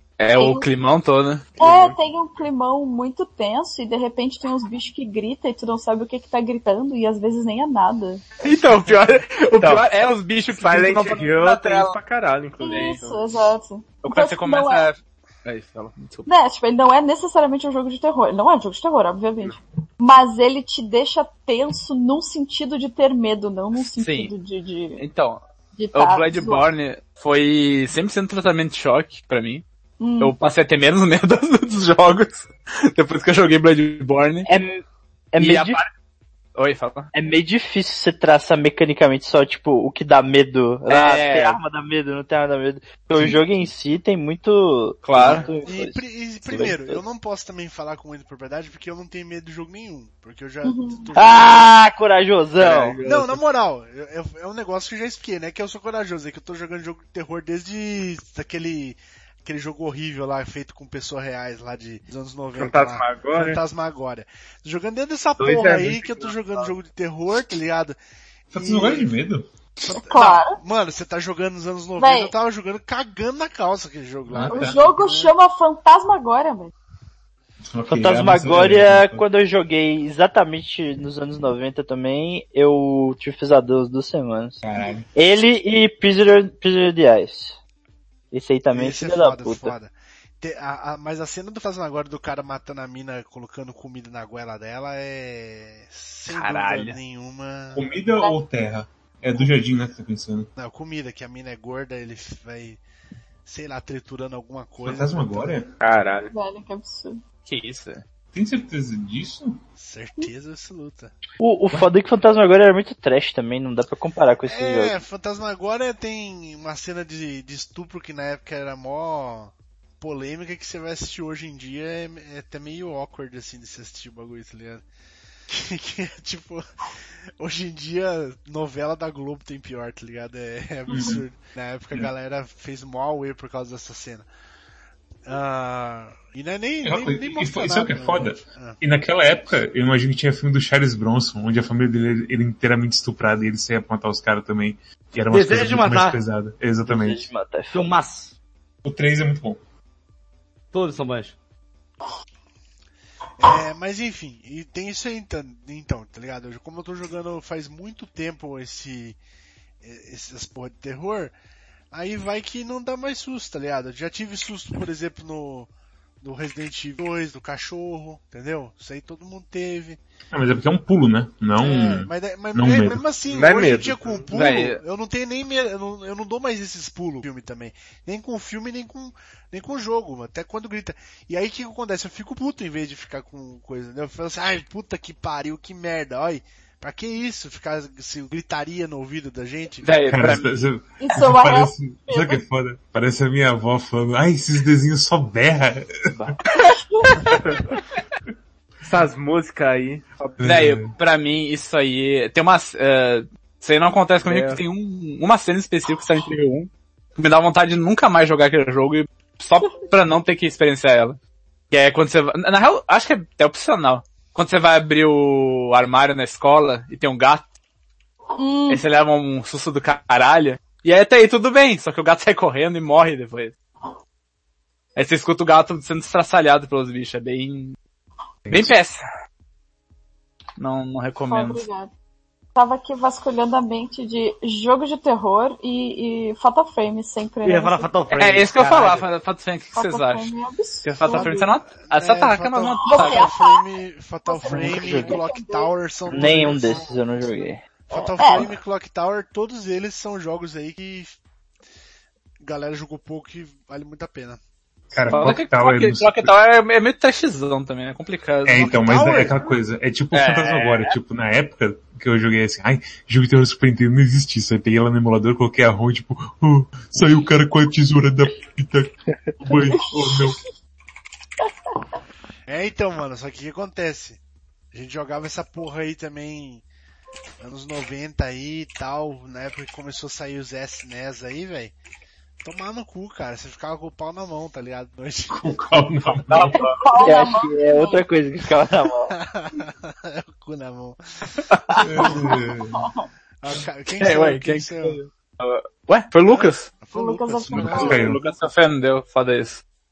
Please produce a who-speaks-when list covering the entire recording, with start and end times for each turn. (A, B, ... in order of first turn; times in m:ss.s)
0:00.2-0:01.5 A
0:00.4-0:00.7 B
0:01.6-0:02.0 C
0:01.6-0:08.2 B
0:08.4-0:12.0 A
0:08.7-0:09.0 C
0:09.6-0:09.9 C
0:10.5-0:13.3 C
0:12.6-0:14.9 B
0:12.7-0:13.0 A
0:14.0-0:16.3 A
0:16.3-0:25.0 B
0:23.9-0:24.3 A
0:25.0-0:29.6 A
0:25.8-0:26.7 B
0:30.0-0:30.4 B
0:30.2-0:34.5 A
0:34.5-0:35.8 D
0:35.4-0:35.9 A
0:36.6-0:37.1 A
0:37.1-0:47.0 D
0:40.9-0:41.6 A
0:45.0-0:45.5 A
0:45.6-0:51.8 E
0:50.6-0:51.1 B
0:51.2-0:53.0 D
0:52.6-0:53.4 C
0:53.0-1:08.0 E
1:02.6-1:03.6 C
1:05.4-1:06.0 C
1:08.5-1:09.2 E
1:08.5-1:09.5 F
1:09.8-1:15.3 E
1:10.0-1:10.6 B
1:12.0-1:12.3 B
1:14.3-1:14.8 F
1:14.5-1:16.7 B
1:17.7-1:19.2 F
1:17.9-1:24.6 D
1:24.6-1:25.1 F
1:25.2-1:27.6 D
1:28.3-1:29.8 D
1:28.7-1:37.9 E
1:36.3-1:37.0 A
1:37.8-1:40.5 F
1:40.6-1:42.8 E
1:43.5-1:45.6 E
1:44.8-1:45.7 F
1:45.8-1:46.3 C
1:46.3-1:47.2 B
1:47.5-1:48.0 A
1:48.3-1:49.6 F
1:49.8-1:51.1 E
1:51.4-1:55.0 D
1:54.5-2:04.8 E
2:05.5-2:06.6 E
2:07.4-2:14.3 E
2:10.9-2:11.2 F
2:15.3-2:18.8 E
2:16.8-2:27.3 F
2:25.3-2:26.2 G
2:26.8-2:27.9 D
2:27.7-2:28.3 G
2:28.8-2:29.6 F
2:30.7-2:31.4 G
2:33.4-2:39.2 E
2:39.8-2:41.4 E
2:41.9-2:45.7 E
2:46.2-2:50.0 E
2:50.3-2:53.0 F
2:51.6-3:09.9 E
2:53.3-2:54.2 C
2:54.3-2:54.8 A
3:09.8-3:10.5 A
3:10.1-3:16.0 F
3:11.0-3:12.4 B
3:16.9-3:17.2 B
3:18.8-3:20.4 C
3:20.4-3:20.9 F
3:20.4-3:31.2 A
3:24.2-3:24.6 C
3:31.7-3:37.5 A
3:38.4-3:38.8 B
3:38.7-3:43.6 A
3:45.0-3:47.8 A
3:48.5-3:48.7 F
3:48.5-3:49.0 A
3:50.6-3:51.6 A
3:51.2-3:51.9 B
3:52.6-3:57.9 B
3:57.4-3:59.1 G
3:58.1-4:00.3 A
3:59.7-4:01.5 B
4:00.8-4:03.2 A
4:01.1-4:06.9 E
4:02.8-4:03.6 B
4:04.3-4:05.7 B
4:04.5-4:05.1 D
4:06.1-4:07.6 D
4:07.9-4:11.2 E
4:08.0-4:08.5 B
4:12.4-4:14.4 E
4:14.9-4:16.4 F
4:15.0-4:18.8 A
4:18.4-4:30.4 F
4:18.6-4:19.3 E
4:20.1-4:21.0 A
4:32.5-4:34.2 E
4:34.7-4:36.6 E
4:37.4-4:41.7 E
4:42.4-4:45.5 E
4:45.3-4:46.6 F
4:46.2-4:46.9 A
4:46.5-4:48.0 B
4:47.0-4:49.1 D
4:49.1-4:51.0 E
4:51.8-4:52.8 F
4:52.7-4:53.1 B
4:53.4-4:55.0 E
4:54.0-4:56.8 A
4:56.3-4:58.2 E
4:56.9-4:58.0 B
4:57.5-4:58.2 F
4:57.6-4:59.6 A